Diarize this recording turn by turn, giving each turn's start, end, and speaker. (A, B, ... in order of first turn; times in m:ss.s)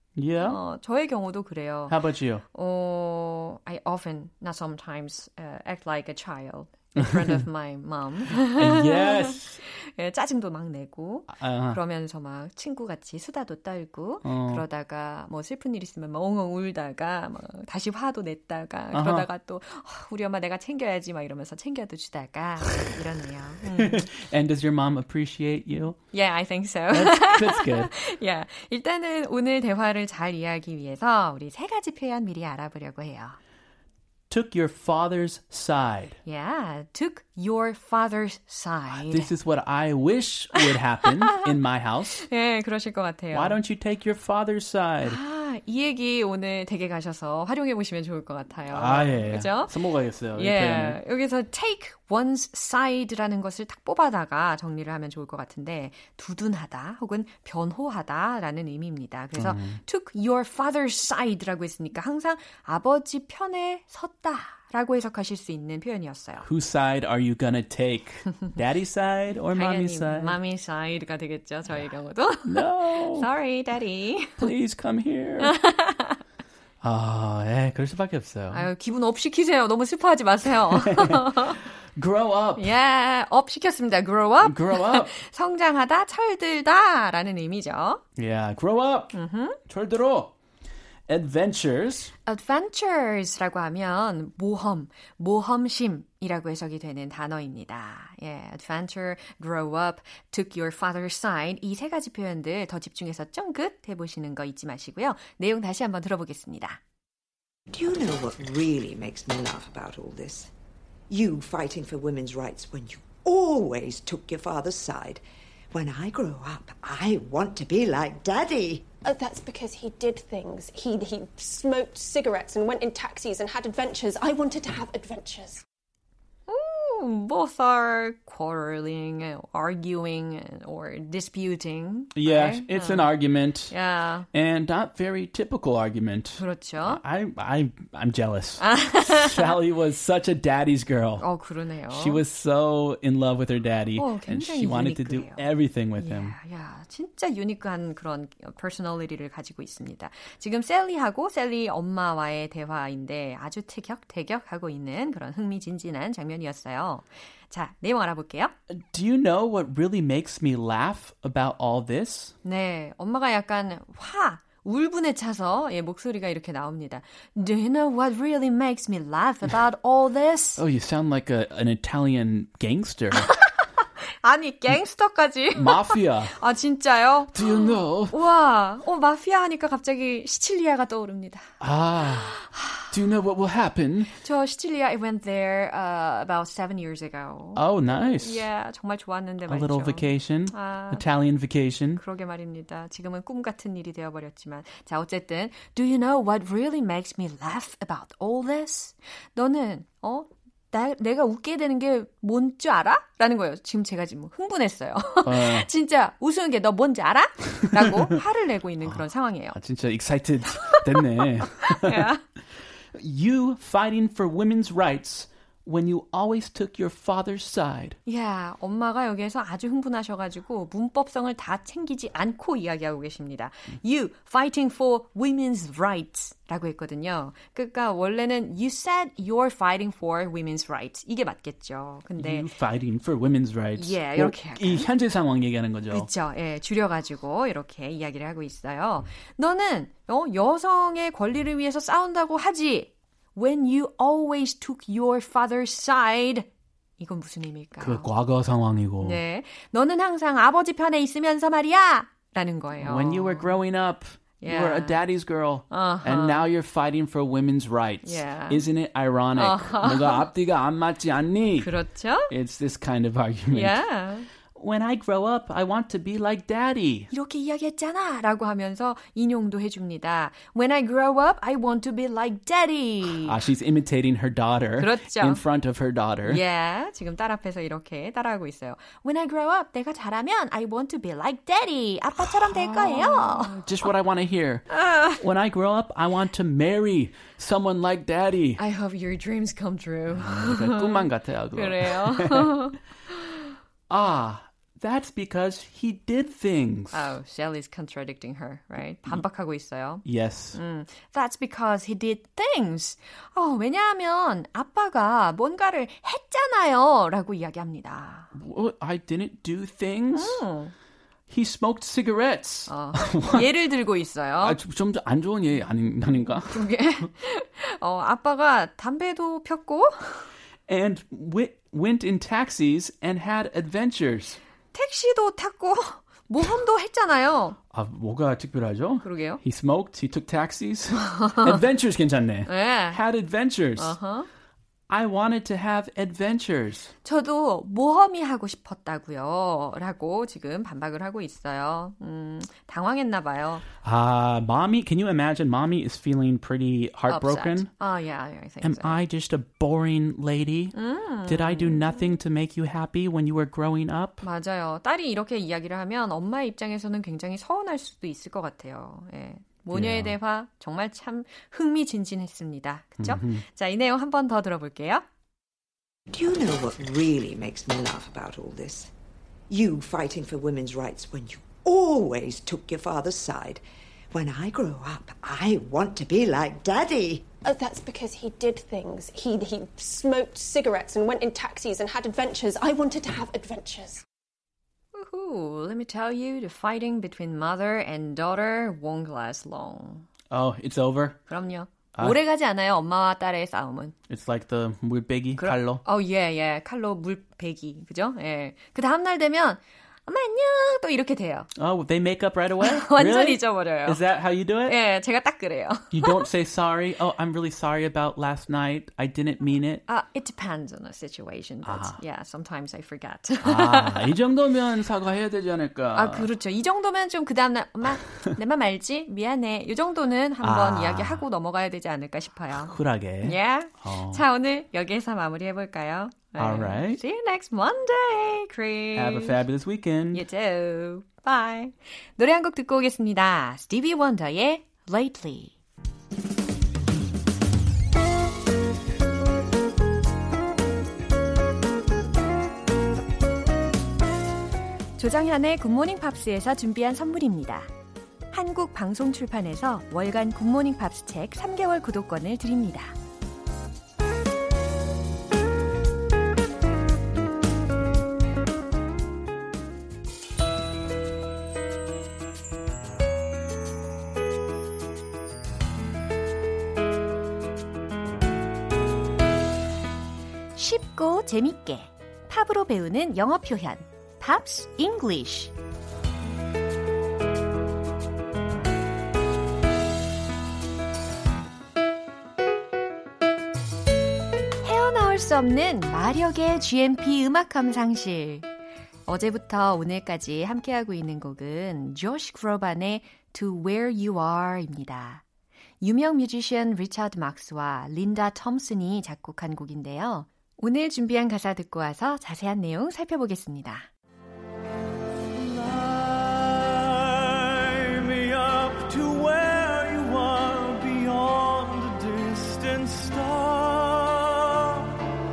0:00.1-0:00.6 A
0:00.4-0:02.0 B
0:01.9-0:02.4 A
0:02.5-0:24.1 B
0:07.0-0:07.4 A
0:08.4-0:09.6 A
0:11.3-0:11.8 A
0:14.2-0:14.6 A
0:18.9-0:19.3 A
0:23.8-0:26.0 A
0:26.1-0:33.4 B
0:26.9-0:27.9 A
0:34.3-0:36.2 A
0:36.2-0:39.3 B
0:38.9-0:42.2 A
0:42.2-0:43.6 B
0:43.3-0:45.2 A
0:45.0-0:49.7 B
0:48.7-0:51.0 A
0:50.3-1:06.4 B
0:59.4-0:59.8 A
1:06.4-1:10.4 A
1:09.5-1:14.5 B
1:12.4-1:13.3 A
1:14.4-1:15.6 A
1:15.4-1:16.2 B
1:16.8-1:18.7 A
1:18.5-1:21.6 B
1:20.7-1:22.7 A
1:22.6-1:28.0 B
1:24.4-1:25.2 A
1:28.2-1:30.3 A
1:29.1-1:29.6 B
1:31.1-1:32.1 A
1:32.3-1:46.8 B
1:47.7-1:50.5 C
1:51.1-1:58.8 C
1:59.0-2:05.6 D
2:06.5-2:13.1 B
2:12.1-2:13.7 A
2:13.7-2:14.3 B
2:14.3-2:21.2 A
2:16.4-2:17.0 B
2:18.6-2:19.5 B
2:21.2-2:22.2 B
2:21.9-2:26.4 A
2:24.0-2:38.5 B
2:38.7-2:42.3 A
2:42.4-2:50.6 B
2:50.6-2:53.3 A
2:54.2-3:02.9 B
2:55.5-2:56.4 A
2:57.3-2:58.2 A
3:01.6-3:04.1 A
3:04.2-3:11.0 B
3:07.5-3:08.5 A
3:09.5-3:12.0 A
3:12.0-3:29.6 B
3:25.2-3:25.7 A
3:27.8-3:28.1 A
3:28.8-3:38.0 A
3:30.6-3:32.2 B
3:38.0-3:52.5 B
3:52.2-3:56.1 A
3:53.8-3:54.9 B
3:55.9-4:08.1 B
4:07.8-4:09.2 A
4:09.0-4:13.6 B
4:12.8-4:21.7 A
4:14.4-4:15.0 B
4:15.7-4:16.5 B
4:18.0-4:18.6 B
4:19.3-4:20.3 B
4:21.6-4:22.3 B
4:22.3-4:23.8 A
4:23.5-4:24.3 B
4:24.5-4:27.1 A
4:27.1-4:33.4 B
4:33.0-4:36.4 A
4:34.8-4:35.4 B
4:36.2-4:43.9 B
4:42.2-4:48.6 A
4:44.7-4:45.2 B
4:48.6-4:53.5 B
4:50.1-4:52.5 A
4:53.9-4:57.1 A
4:56.9-5:08.3 B
5:00.0-5:00.6 A
5:08.3-5:10.4 A
5:10.1-5:10.7 B
5:11.3-5:13.5 A
5:12.7-5:14.6 B
5:14.4-5:17.1 A
5:16.1-5:20.3 B
5:20.7-5:24.4 A
5:24.7-5:27.6 B
5:27.7-5:34.0 A
5:29.0-5:29.4 B
5:31.0-5:31.6 B
5:32.5-5:33.0 B
5:33.8-5:34.3 B
5:34.9-5:36.9 A
5:37.0-5:43.6 B
5:43.8-5:47.7 A
5:47.1-5:49.0 B
5:48.6-5:54.2 A
5:50.7-5:52.1 B
5:54.2-6:05.0 B
5:59.7-6:00.1 A
6:03.0-6:03.4 A
6:06.1-6:08.9 C
6:09.5-6:17.2 C
6:17.4-6:24.0 D
6:24.9-6:30.0 B
6:30.3-6:31.2 A
6:31.3-6:34.0 B
6:34.1-6:35.8 A
6:35.4-6:41.5 B
6:41.6-6:44.8 A
6:42.6-6:44.0 B
6:44.7-6:46.3 B
6:45.9-6:49.8 A
6:49.9-6:54.1 B
6:51.6-6:52.0 A
6:53.4-6:56.3 A
6:55.9-7:09.4 B
7:00.4-7:01.2 A
7:02.5-7:04.2 A
7:06.4-7:07.0 A
7:08.9-7:10.2 A
7:10.1-7:15.5 B
7:25.0-7:27.7 B
7:28.3-7:33.0 B
7:50.5-7:55.5 B
8:04.6-8:08.5 B
8:09.1-8:15.2 B
8:15.8-8:23.9 B
8:25.3-8:35.0 E